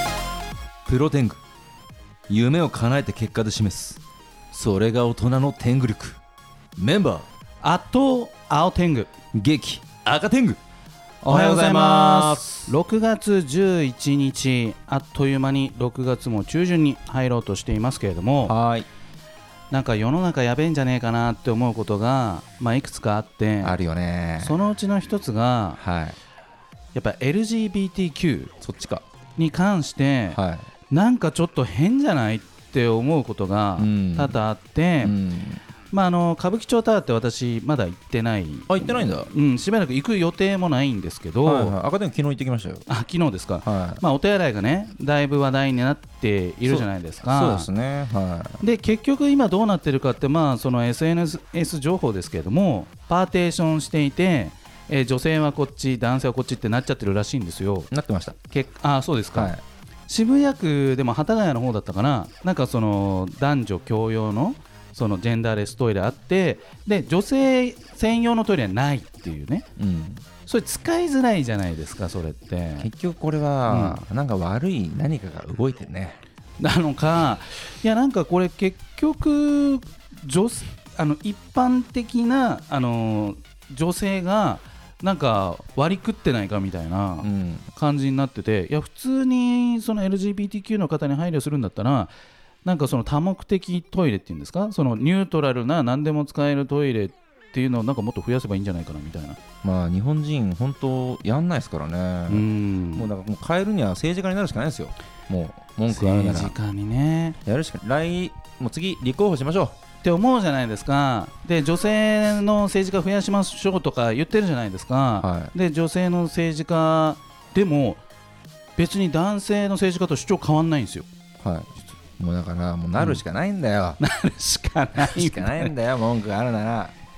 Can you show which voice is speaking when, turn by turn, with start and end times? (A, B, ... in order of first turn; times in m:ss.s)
0:00.9-0:01.4 A
0:02.3-0:04.0 A
0:04.5-0:06.2 A
0:06.8-0:07.3 A
0:07.6-0:09.1 B
0:09.3-0:10.6 A
0:11.2-0:12.7 A
0:11.2-0:18.6 B
0:18.5-0:18.9 A
0:19.7-0:23.8 B
0:23.6-0:24.6 A
0:24.4-0:25.8 B
0:25.8-0:26.2 A
0:26.9-0:28.5 B
0:28.6-0:29.0 A
0:29.4-0:30.4 B
0:30.3-0:30.7 A
0:30.9-0:35.2 B
0:33.8-0:34.4 A
0:35.0-0:35.6 A
0:35.9-0:41.8 B
0:38.7-0:39.3 A
0:41.4-0:42.9 A
0:42.9-0:47.7 B
0:43.6-0:44.0 A
0:46.7-0:48.6 A
0:48.6-0:57.9 B
0:57.9-0:58.4 A
0:58.5-0:59.5 B
0:59.3-0:59.6 A
1:00.1-1:09.7 B
1:09.8-1:10.2 A
1:10.5-1:12.9 B
1:12.8-1:16.2 A
1:13.7-1:14.0 B
1:16.6-1:32.1 B
1:27.2-1:27.7 A
1:32.6-1:39.4 B
1:39.6-1:46.5 A
1:42.3-1:43.1 B
1:45.9-1:47.4 B
1:47.4-1:49.8 A
1:50.0-1:58.0 B
1:55.2-1:55.5 A
1:58.8-2:01.1 B
2:01.4-2:04.0 A
2:04.0-2:05.7 B
2:05.0-2:06.9 A